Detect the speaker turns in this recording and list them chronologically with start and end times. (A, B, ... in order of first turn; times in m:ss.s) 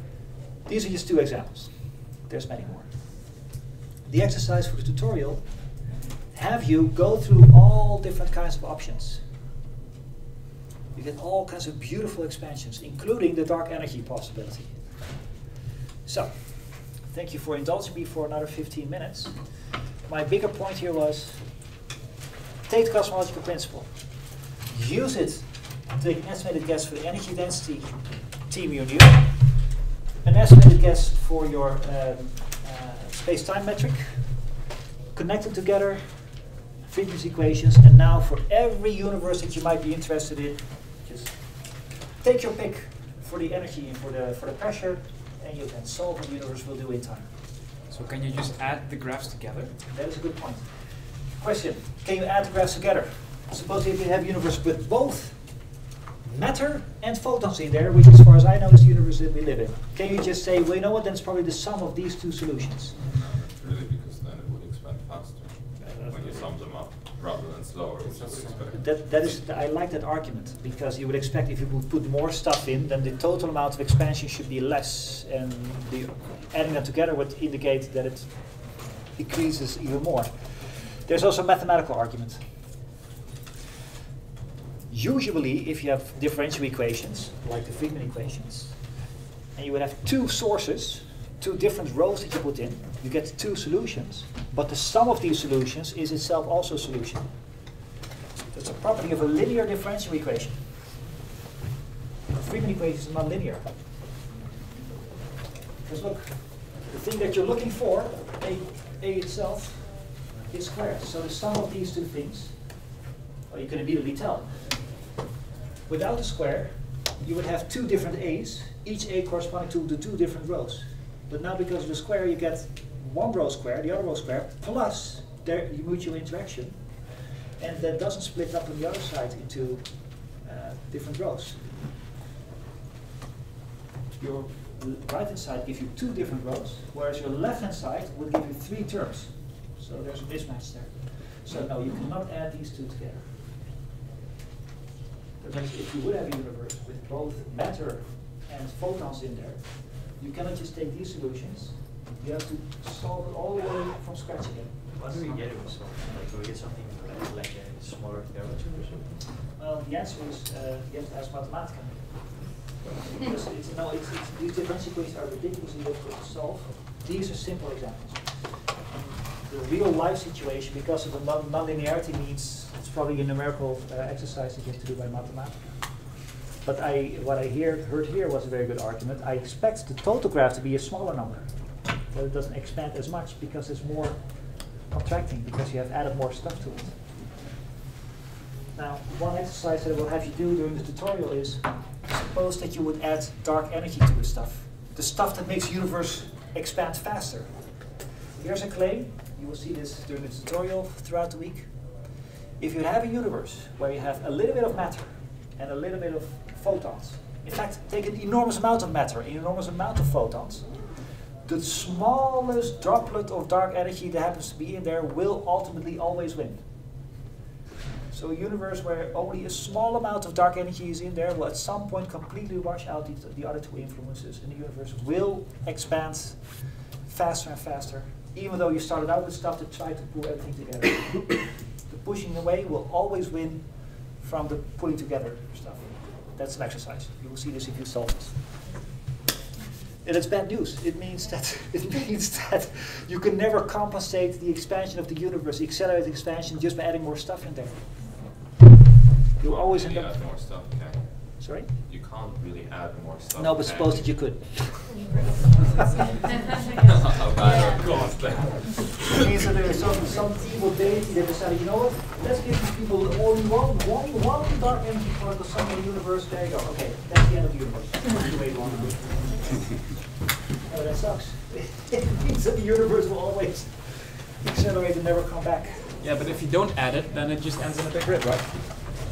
0:00.6-0:03.4 A
0:04.0-0:09.2 A
0:10.9-0:15.0 A
0:16.0-0:21.5 A
0:22.6-0:29.7 A
0:30.2-0:34.4 A
0:35.1-0:47.3 A
0:47.9-0:49.8 B
0:49.9-0:50.8 A
0:51.4-0:55.7 A
0:56.2-1:03.0 A
1:03.0-1:09.4 C
1:05.8-1:06.5 A
1:08.0-1:08.8 D
1:08.7-1:22.4 A
1:24.9-1:28.8 A
1:29.5-1:37.3 A
1:38.5-1:40.7 A
1:42.3-1:43.7 A
1:45.8-1:52.7 A
1:53.5-1:55.0 A
1:55.9-2:07.0 A
2:07.6-2:11.8 A
2:14.2-2:23.3 A
2:25.4-2:35.3 A
2:34.9-2:39.4 D
2:39.5-2:48.6 A
2:49.3-2:56.0 A
2:56.6-3:01.5 A
3:02.1-3:07.0 A
3:08.7-3:17.7 A
3:18.4-3:21.7 A
3:22.6-3:36.6 A
3:38.1-3:58.6 A
4:00.0-4:08.0 A
4:09.4-4:10.2 A
4:09.4-4:14.4 C
4:11.4-4:11.7 A
4:13.4-4:15.1 A
4:16.9-4:19.1 C
4:17.8-4:18.4 B
4:19.1-4:35.9 A
4:36.0-4:39.0 B